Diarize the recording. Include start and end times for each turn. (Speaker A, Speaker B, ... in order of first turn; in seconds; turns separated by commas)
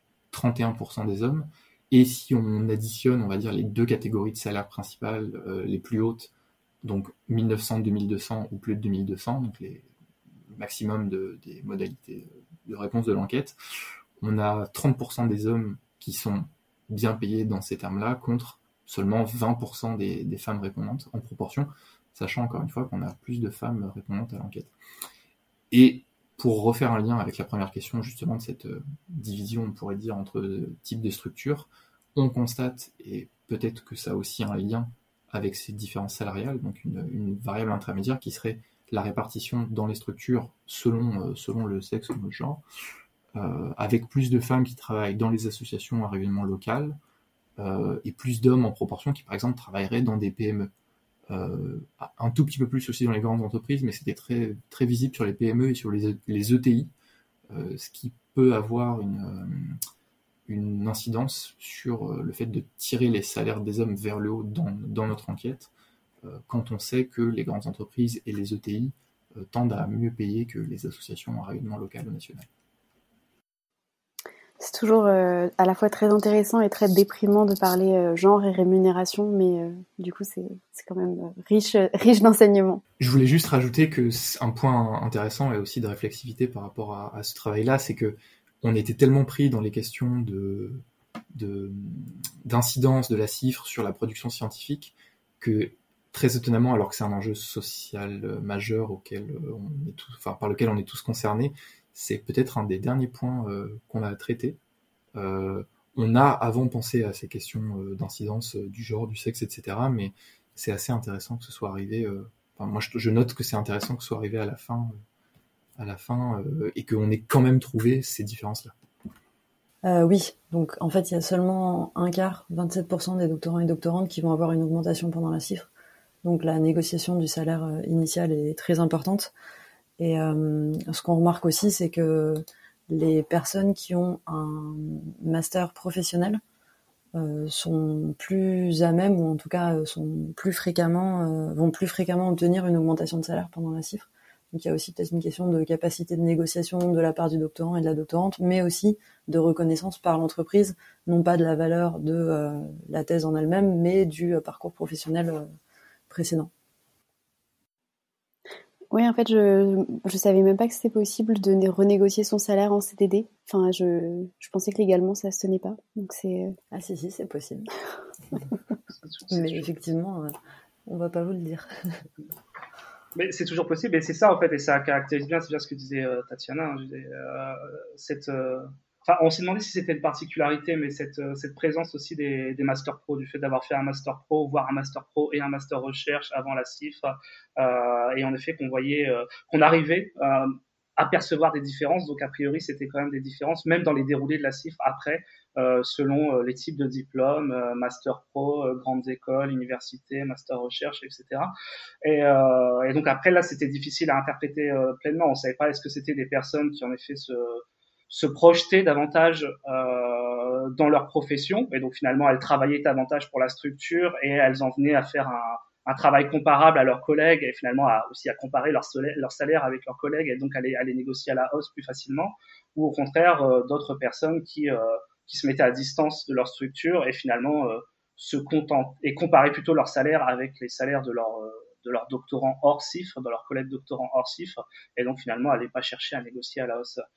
Speaker A: 0.3-6.3, Speaker A: 6.8-9.9, Speaker A: 10.5-13.6, Speaker A: 14.2-24.7, Speaker A: 25.7-42.6, Speaker A: 43.4-47.0, Speaker A: 47.6-50.7, Speaker A: 51.3-56.9, Speaker A: 57.5-59.8, Speaker A: 60.5-65.7, Speaker A: 66.2-72.5, Speaker B: 74.6-82.8, Speaker A: 83.0-104.6, Speaker A: 105.2-115.0, Speaker A: 115.8-118.8, Speaker C: 119.8-125.7, Speaker C: 126.2-129.3, Speaker C: 130.0-136.4, Speaker C: 137.2-155.5, Speaker C: 156.1-156.5, Speaker B: 158.9-166.6, Speaker C: 166.7-167.7, Speaker D: 169.0-169.7, Speaker C: 169.3-170.3, Speaker C: 170.9-172.0, Speaker D: 173.2-201.5, Speaker D: 202.0-237.1